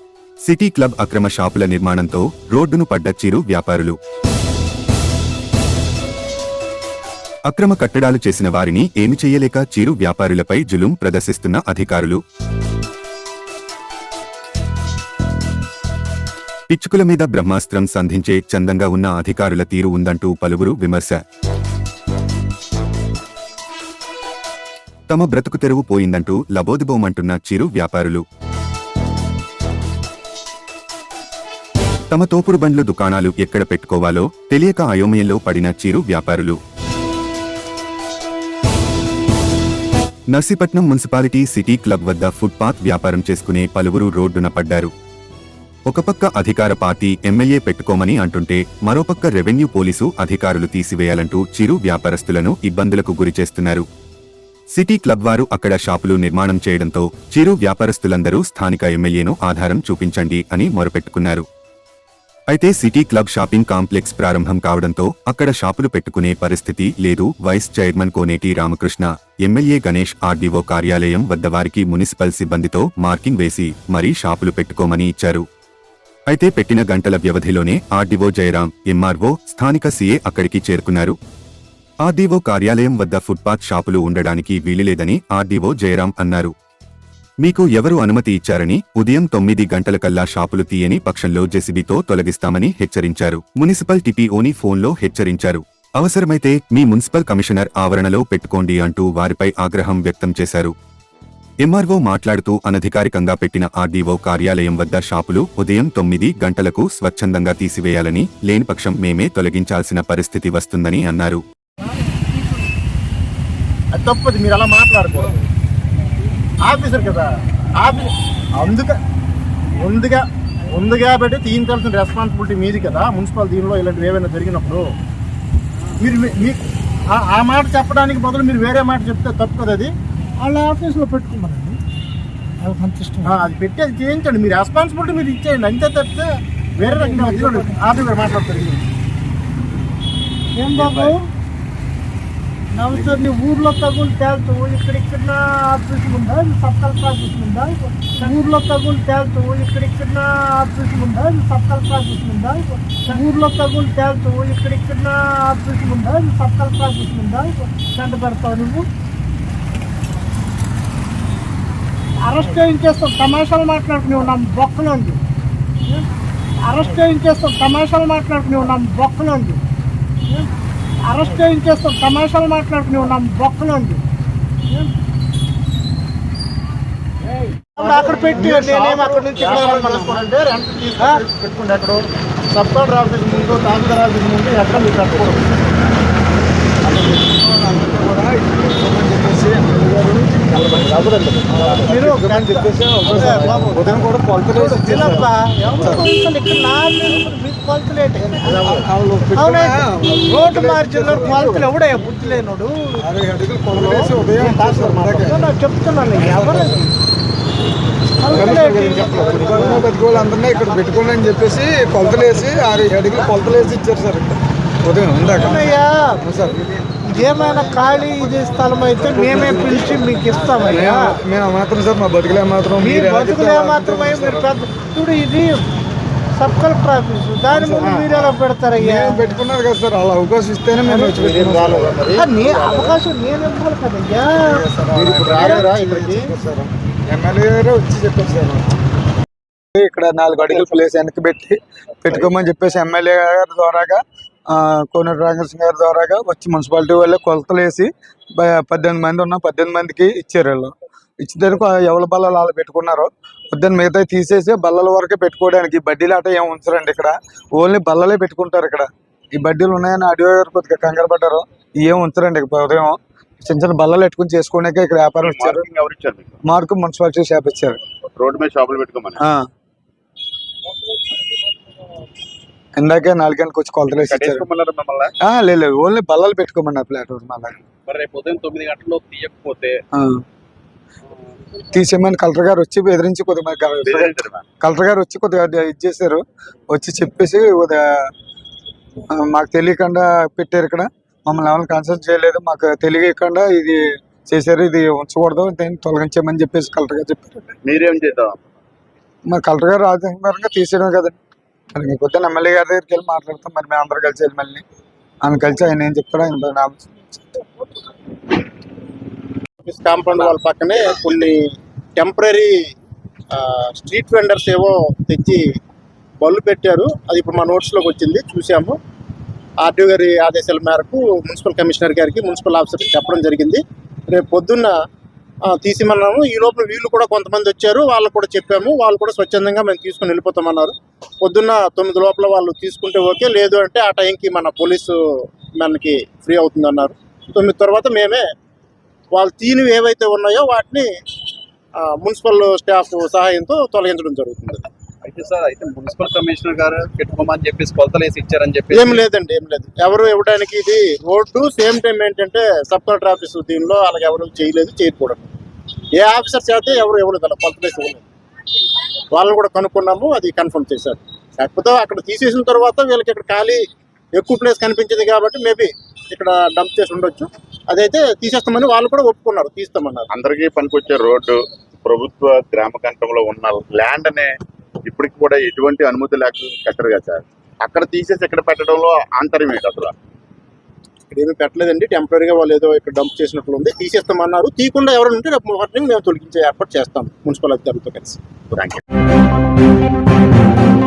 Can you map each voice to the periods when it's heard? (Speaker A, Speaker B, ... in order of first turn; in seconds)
Speaker A: 0.4-4.0, 7.5-12.2, 16.7-21.2, 25.1-28.2, 32.1-36.6, 40.3-44.9, 45.9-53.9, 54.7-61.5, 62.5-75.5, 76.3-81.2, 82.0-86.5, 87.4-100.7, 101.6-111.4
Speaker B: 113.9-115.4, 116.7-117.3, 117.8-119.0, 119.8-124.9, 126.0-126.6, 127.1-129.9, 133.2-138.8, 177.8-182.0, 182.5-185.6, 190.5-191.8, 204.4-205.2, 227.8-228.2, 231.2-233.0, 234.9-236.2, 309.6-311.4, 312.0-312.5, 313.3-315.4, 316.2-318.8, 319.6-324.8, 325.5-334.9, 335.6-338.2, 339.1-340.9, 341.8-344.6, 348.7-355.3, 355.9-358.0, 359.1-363.6, 364.1-370.1, 381.1-388.2
Speaker C: 130.4-131.8, 132.6-133.4, 136.8-137.8, 140.6-141.3, 142.7-158.9, 162.2-165.2, 166.6-169.6, 171.0-174.0, 177.8-180.3, 181.0-181.2, 191.9-198.7, 199.3-203.0, 203.8-204.5, 205.1-206.9, 208.2-209.8, 215.3-216.2, 217.0-221.2, 222.8-225.7, 226.3-229.2, 230.8-231.2, 232.2-234.6, 235.3-235.7
Speaker D: 186.8-196.1, 198.3-201.7, 203.0-205.5, 208.3-216.6, 219.0-224.6, 227.5-228.2, 228.8-232.0, 234.3-238.8, 239.7-265.7, 266.5-267.8, 269.2-269.4, 272.8-274.5, 275.2-277.6, 279.9-280.2, 281.7-288.1, 289.1-297.4, 299.3-301.2, 301.8-304.6, 305.2-307.4
Speaker E: 265.2-266.4, 268.2-269.2, 274.0-275.1, 283.8-284.4, 297.6-298.6, 370.1-374.3, 374.9-379.9, 388.5-388.8
Speaker F: 277.9-279.8, 345.1-349.0